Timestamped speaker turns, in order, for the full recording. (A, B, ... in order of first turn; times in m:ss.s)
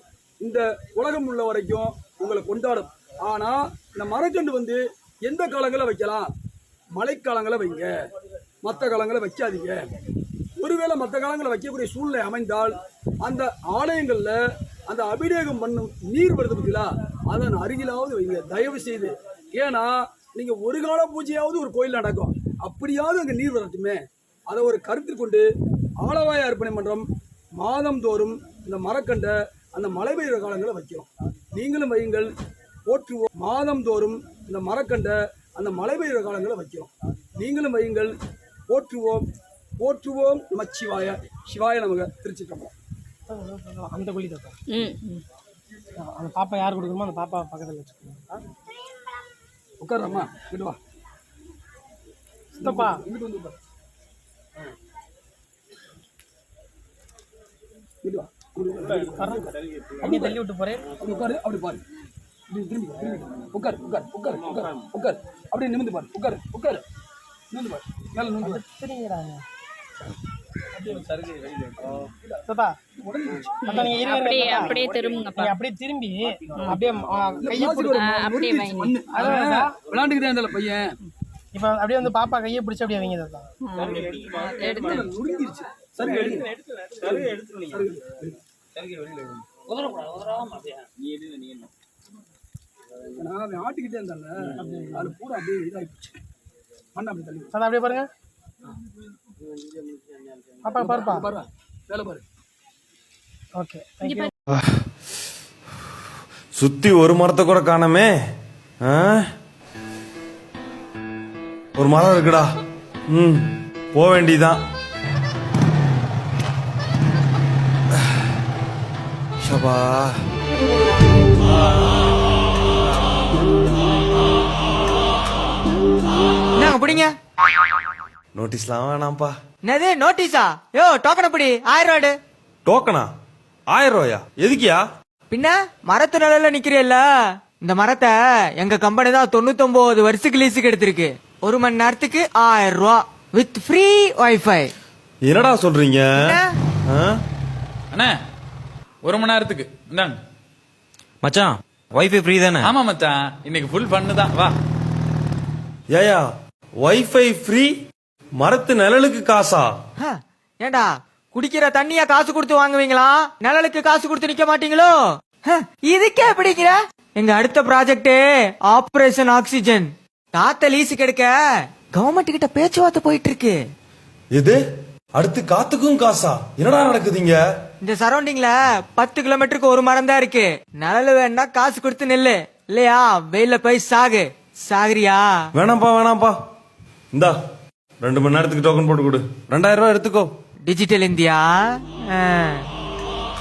0:00.4-0:06.3 A
0:07.0-0:07.9 A
0:08.6-0:09.9 A
0:10.6-0:25.5 A
0:26.0-0:27.1 A
0:27.6-0:32.3 A
0:32.9-0:38.1 A
0:38.7-0:39.3 A
0:39.8-0:42.7 A
0:43.3-0:44.6 B
0:44.7-0:45.2 C
0:46.0-0:48.2 B
0:49.8-0:50.8 A
0:52.6-0:53.6 A
0:52.6-0:53.0 B
0:58.0-1:00.4 A
0:59.1-0:59.5 B
1:00.1-1:00.9 B
1:01.0-1:01.8 A
1:02.5-1:06.8 A
1:07.5-1:08.6 A
1:08.4-1:09.4 B
1:10.8-1:11.3 A
1:12.0-1:12.4 A
1:12.5-1:12.8 B
1:13.0-1:15.0 A
1:13.6-1:15.6 C
1:13.7-1:18.0 B
1:17.4-1:21.0 A
1:17.9-1:19.0 C
1:19.0-1:19.7 B
1:21.6-1:23.5 B
1:23.6-1:25.1 C
1:24.7-1:28.4 A
1:33.2-1:36.2 A
1:34.6-1:35.1 B
1:37.0-1:37.5 A
1:37.5-1:38.1 B
1:40.6-1:41.3 B
1:40.8-1:42.2 A
1:43.6-1:44.3 B
1:46.6-1:48.2 D
1:48.8-1:49.2 D
1:51.8-1:52.5 D
1:53.1-1:54.6 D
1:59.4-2:00.0 D
2:01.5-2:01.7 D
2:06.6-2:07.2 E
2:08.4-2:09.3 D
2:09.6-2:12.2 E
2:12.7-2:13.1 D
2:13.7-2:14.8 D
2:15.3-2:17.0 E
2:17.6-2:24.7 E
2:25.2-2:26.2 D
2:26.2-2:26.5 E
2:27.9-2:28.2 F
2:29.0-2:30.2 F
2:32.6-2:34.5 F
2:35.9-2:36.3 D
2:36.8-2:37.7 D
2:38.4-2:39.7 D
2:40.0-2:51.3 E
2:51.9-2:53.6 E
2:54.3-2:54.6 D
2:55.2-2:57.4 D
2:57.8-3:05.2 E
3:05.6-3:06.4 D
3:08.0-3:10.3 D
3:10.7-3:11.6 E
3:12.1-3:12.7 E